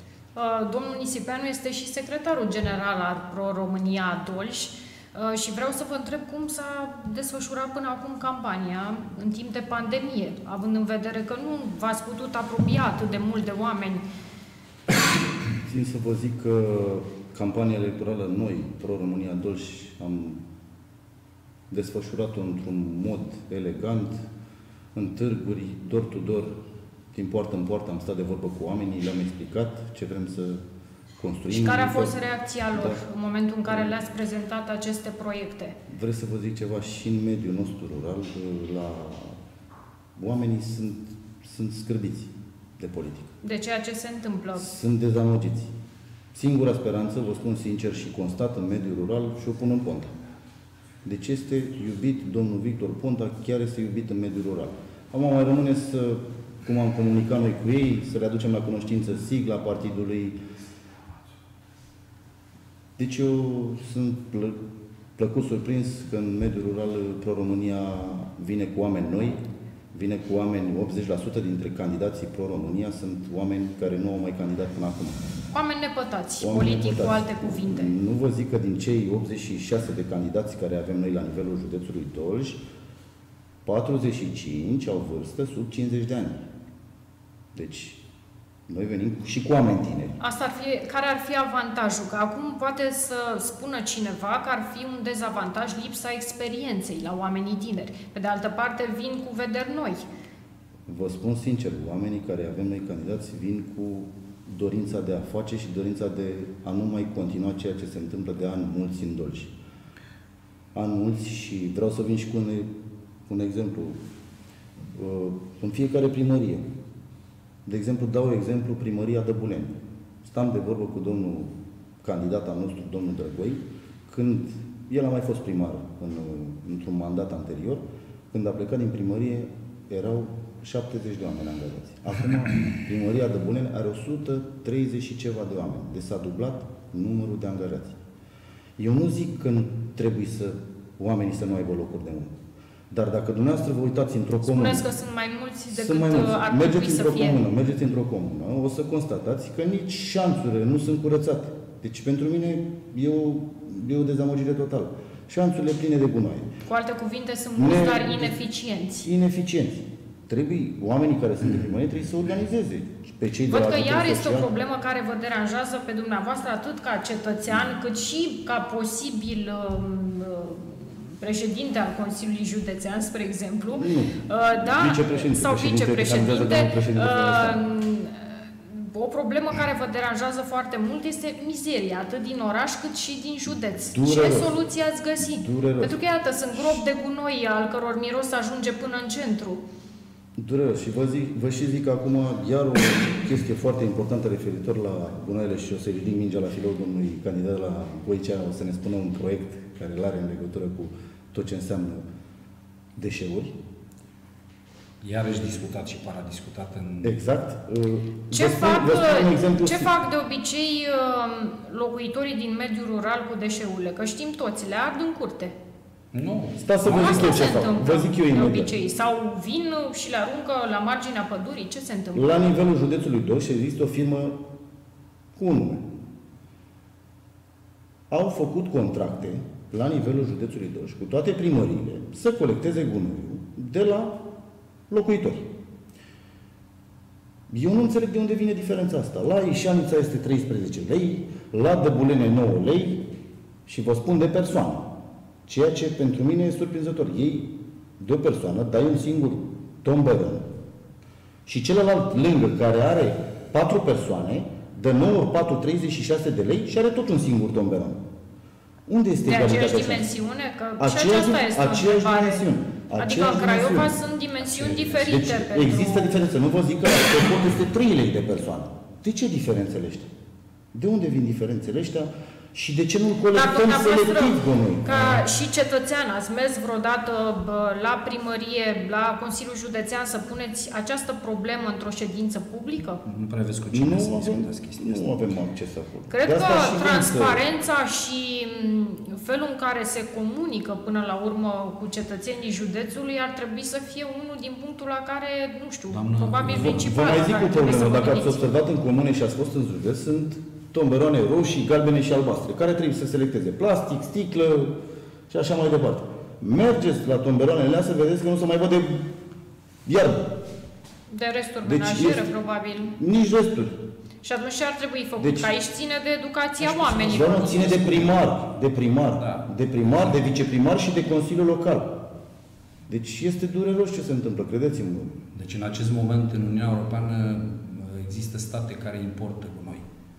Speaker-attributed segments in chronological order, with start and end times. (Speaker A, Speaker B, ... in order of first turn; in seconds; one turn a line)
Speaker A: 0.3-14.0
Speaker B: 15.6-20.4
Speaker B: 21.7-24.3
Speaker B: 24.9-26.6
Speaker B: 27.1-30.6
Speaker B: 31.2-32.2
Speaker A: 31.5-35.8
Speaker B: 32.7-33.0
Speaker B: 35.9-39.4
Speaker B: 40.2-43.4
Speaker A: 43.4-44.7
Speaker B: 44.5-45.7
Speaker B: 46.3-50.1
Speaker B: 51.0-60.4
Speaker B: 63.0-64.6
Speaker B: 65.2-75.3
Speaker A: 75.5-77.9
Speaker B: 76.4-82.7
Speaker B: 83.7-86.5
Speaker B: 87.5-88.0
Speaker B: 88.7-90.2
Speaker A: 90.2-100.1
Speaker B: 100.9-109.6
Speaker B: 110.7-112.7
Speaker B: 113.3-114.0
Speaker B: 114.9-116.7
Speaker B: 117.7-138.0
Speaker B: 138.8-142.4
Speaker B: 142.9-144.9
Speaker A: 144.4-147.4
Speaker B: 145.7-156.6
Speaker A: 156.7-159.1
Speaker B: 157.6-158.4
Speaker B: 159.0-164.5
Speaker A: 163.5-189.6
Speaker B: 173.8-177.6
Speaker B: 183.8-184.6
Speaker B: 185.2-186.0
Speaker B: 190.4-202.1
Speaker B: 203.0-203.6
Speaker C: 205.0-207.3
Speaker B: 207.0-209.9
Speaker A: 208.3-215.6
Speaker C: 216.1-217.6
Speaker B: 216.6-218.8
Speaker A: 216.8-222.5
Speaker B: 222.1-224.5
Speaker B: 225.4-225.9
Speaker B: 228.1-234.3
Speaker B: 234.9-235.6
Speaker B: 237.5-243.1
Speaker B: 243.7-250.5
Speaker B: 251.5-258.1
Speaker B: 258.9-260.1
Speaker A: 259.2-262.4
Speaker B: 260.8-264.0
Speaker A: 263.0-266.2
Speaker C: 264.5-265.2
Speaker B: 264.6-270.1
Speaker B: 270.7-275.2
Speaker A: 273.3-283.0
Speaker C: 283.1-285.4
Speaker B: 283.7-287.4
Speaker A: 286.1-298.5
Speaker C: 295.9-297.0
Speaker B: 296.4-304.8
Speaker B: 305.3-309.1
Speaker B: 309.9-310.4
Speaker A: 311.1-312.9
Speaker B: 311.6-312.3
Speaker B: 312.9-313.9
Speaker A: 314.2-317.8
Speaker B: 315.2-315.5
Speaker C: 316.6-318.5
Speaker B: 317.1-322.0
Speaker C: 319.1-319.5
Speaker B: 322.9-325.2
Speaker C: 325.3-329.9